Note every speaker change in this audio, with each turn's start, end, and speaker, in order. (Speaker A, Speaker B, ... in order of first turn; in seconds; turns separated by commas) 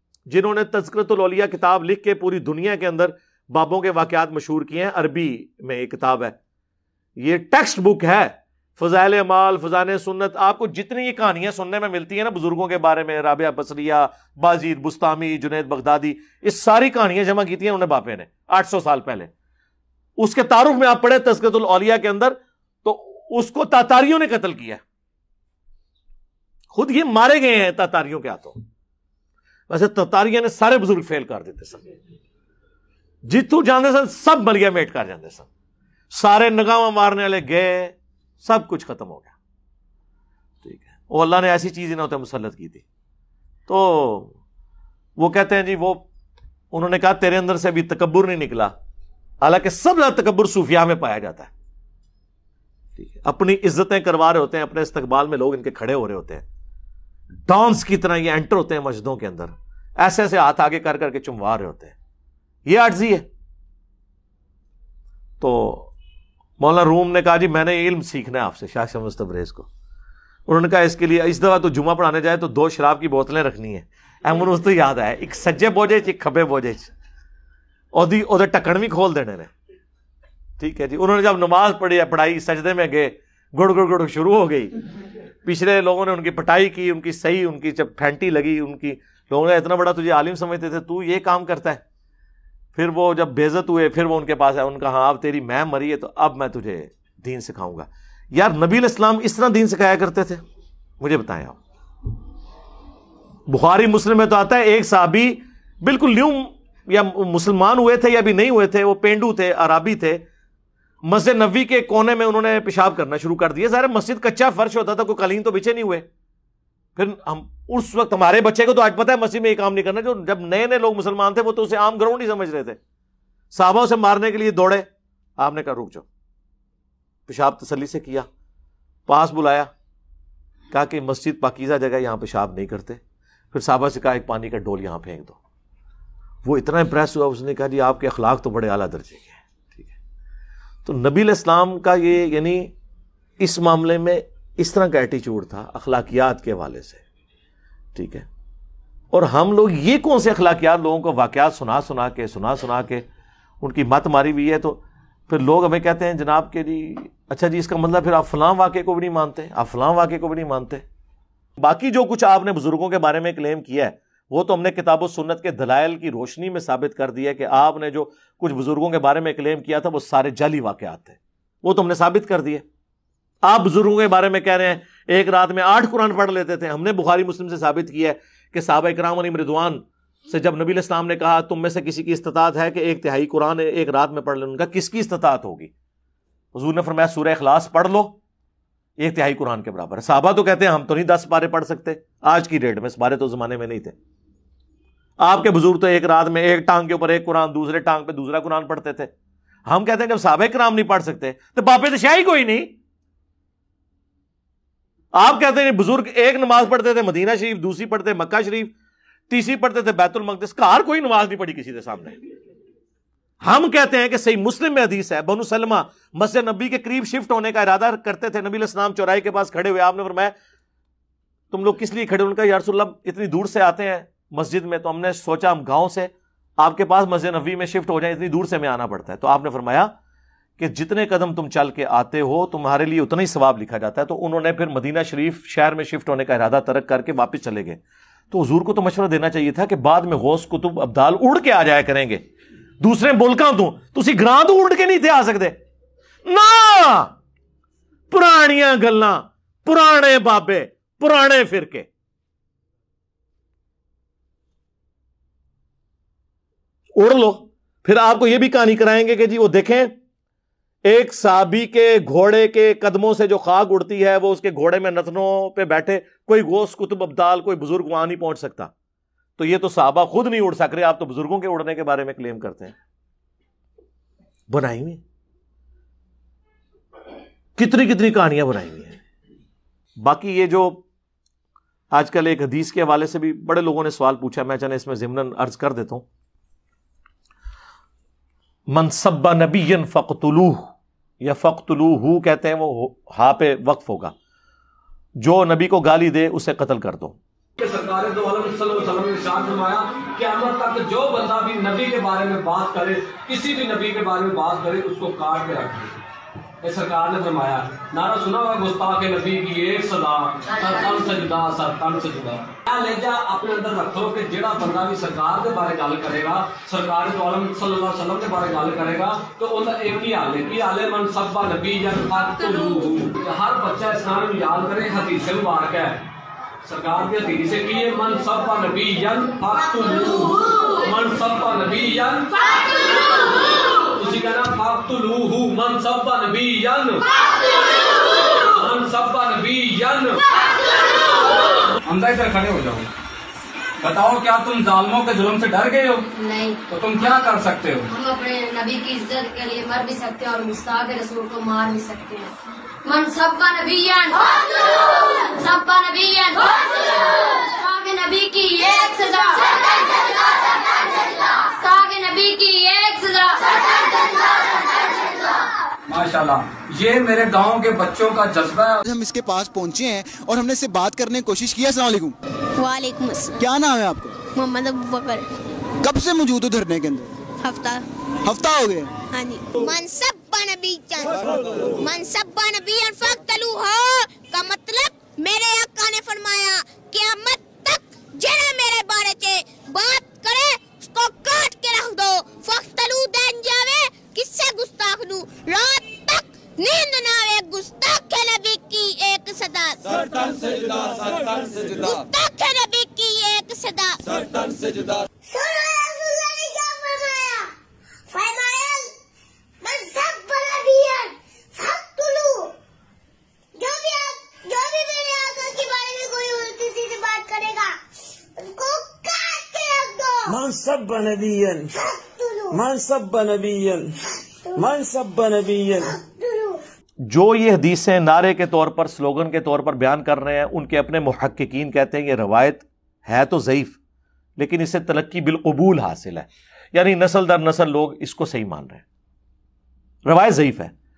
Speaker A: 0.3-6.4, Speaker A: 7.2-19.3, Speaker A: 20.2-24.8, Speaker A: 26.7-28.6, Speaker A: 29.7-31.9, Speaker A: 33.3-35.5, Speaker A: 36.1-39.3, Speaker A: 40.6-42.8, Speaker A: 43.7-44.4, Speaker A: 45.2-46.0, Speaker A: 46.7-48.7, Speaker A: 49.4-51.5, Speaker A: 53.0-56.5, Speaker A: 57.5-62.0, Speaker A: 62.6-63.3, Speaker A: 65.4-65.9, Speaker A: 66.6-69.7, Speaker A: 70.5-76.9, Speaker A: 77.9-79.5, Speaker A: 80.6-84.8, Speaker A: 85.5-91.8, Speaker A: 92.8-100.4, Speaker A: 101.0-101.6, Speaker A: 103.5-110.2, Speaker A: 111.0-116.1, Speaker A: 117.0-122.8, Speaker A: 123.5-124.9, Speaker A: 125.4-126.0, Speaker A: 127.3-128.3, Speaker A: 129.1-129.7, Speaker A: 130.7-133.0, Speaker A: 133.5-135.4, Speaker A: 136.4-139.9, Speaker A: 140.8-142.7, Speaker A: 143.4-147.0, Speaker A: 147.9-148.3, Speaker A: 149.1-153.1, Speaker A: 153.6-160.8, Speaker A: 161.6-172.6, Speaker A: 173.4-185.7, Speaker A: 186.5-188.2, Speaker A: 189.0-194.0, Speaker A: 195.2-199.1, Speaker A: 199.7-202.7, Speaker A: 205.1-208.7, Speaker A: 209.3-212.2, Speaker A: 213.4-220.3, Speaker A: 221.5-229.9, Speaker A: 230.6-237.8, Speaker A: 238.3-242.2, Speaker A: 242.8-245.6, Speaker A: 246.3-247.1, Speaker A: 248.1-251.9, Speaker A: 257.0-259.9, Speaker A: 260.9-268.7, Speaker A: 269.4-272.8, Speaker A: 274.5-275.0, Speaker A: 277.6-279.0, Speaker A: 280.0-280.8, Speaker A: 281.9-286.1, Speaker A: 288.7-294.1, Speaker A: 295.2-297.2, Speaker B: 297.6-306.0, Speaker B: 306.6-326.1, Speaker C: 310.5-311.0, Speaker B: 326.6-332.4, Speaker B: 333.9-337.1, Speaker B: 338.4-340.2, Speaker B: 341.8-342.9, Speaker B: 343.8-346.1, Speaker C: 346.1-346.6, Speaker B: 346.7-347.9, Speaker C: 347.9-365.1, Speaker B: 365.9-368.8, Speaker D: 368.8-372.2, Speaker E: 372.6-373.4, Speaker D: 373.4-374.2, Speaker E: 374.3-375.3, Speaker D: 375.8-377.1, Speaker E: 377.4-377.8, Speaker D: 378.2-378.9, Speaker E: 379.1-381.2, Speaker E: 381.8-404.7, Speaker E: 405.3-407.5, Speaker E: 408.1-408.9, Speaker E: 409.6-412.5, Speaker E: 413.6-417.8, Speaker E: 418.4-420.4, Speaker F: 420.3-421.8, Speaker E: 421.9-422.6, Speaker F: 422.5-424.0, Speaker F: 424.5-425.9, Speaker E: 426.0-426.6, Speaker A: 427.0-433.8, Speaker A: 434.4-438.8, Speaker A: 440.1-440.7